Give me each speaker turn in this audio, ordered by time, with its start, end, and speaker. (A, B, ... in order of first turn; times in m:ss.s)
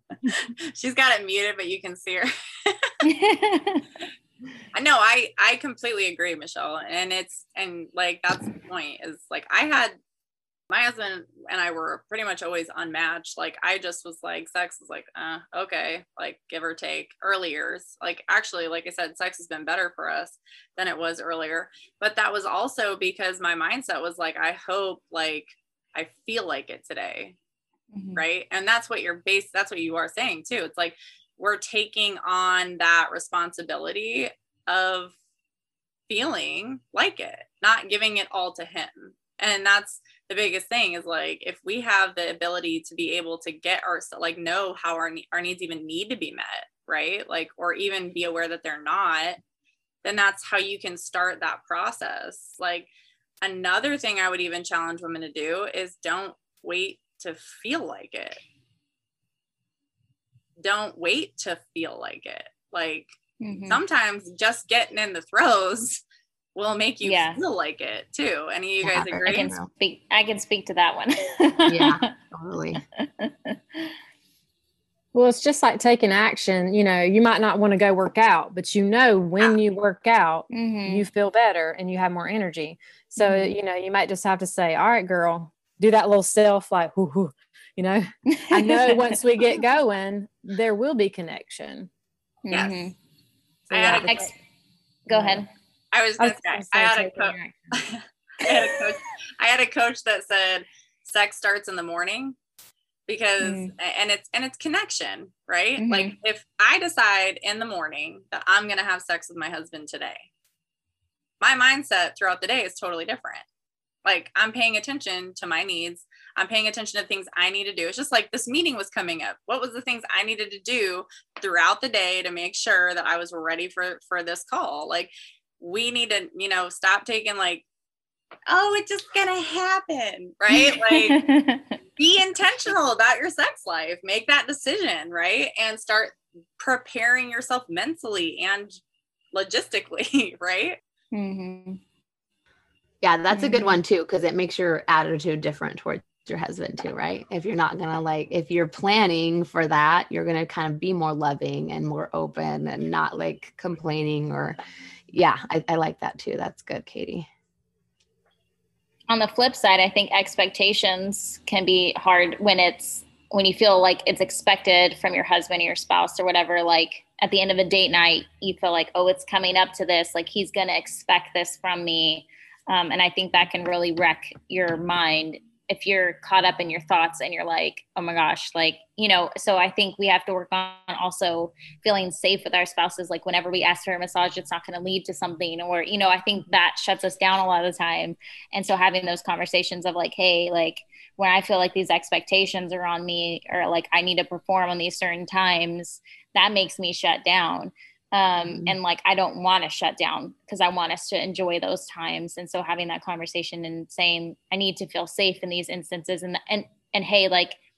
0:00.3-0:02.9 A
0:03.0-0:03.8 B
0:04.7-0:10.0 A
0:10.7-0:27.4 A
0:27.9-0:28.2 B
0:28.2-0:35.1 A
0:36.1-0:49.4 A
0:50.0-0:52.9 A
0:53.4-0:58.4 A
1:00.6-1:03.1 A
1:03.4-1:03.8 B
1:03.7-1:06.0 A
1:06.6-1:09.5 A
1:07.0-1:07.4 B
1:08.8-1:09.7 C
1:09.2-1:12.1 B
1:11.7-1:12.8 C
1:12.9-1:13.9 B
1:15.1-1:31.9 D
1:20.5-1:21.0 B
1:23.2-1:23.5 B
1:28.3-1:29.2 B
1:32.4-1:32.9 B
1:32.5-1:32.9 A
1:33.7-1:34.2 D
1:33.7-1:34.3 A
1:34.1-1:34.3 B
1:35.1-1:35.5 B
1:35.1-1:35.4 D
1:35.9-1:42.4 A
1:36.2-1:37.7 D
1:43.1-1:50.3 A
1:43.4-1:43.7 B
1:45.8-1:46.2 B
1:51.4-1:53.4 A
1:54.0-2:07.6 A
2:08.5-2:11.2 A
2:10.5-2:11.7 B
2:12.0-2:18.8 A
2:19.3-2:20.8 A
2:21.1-2:21.8 B
2:23.0-2:34.6 C
2:23.3-2:23.8 B
2:35.1-2:37.3 C
2:39.1-3:27.6 B
3:18.5-3:18.7 C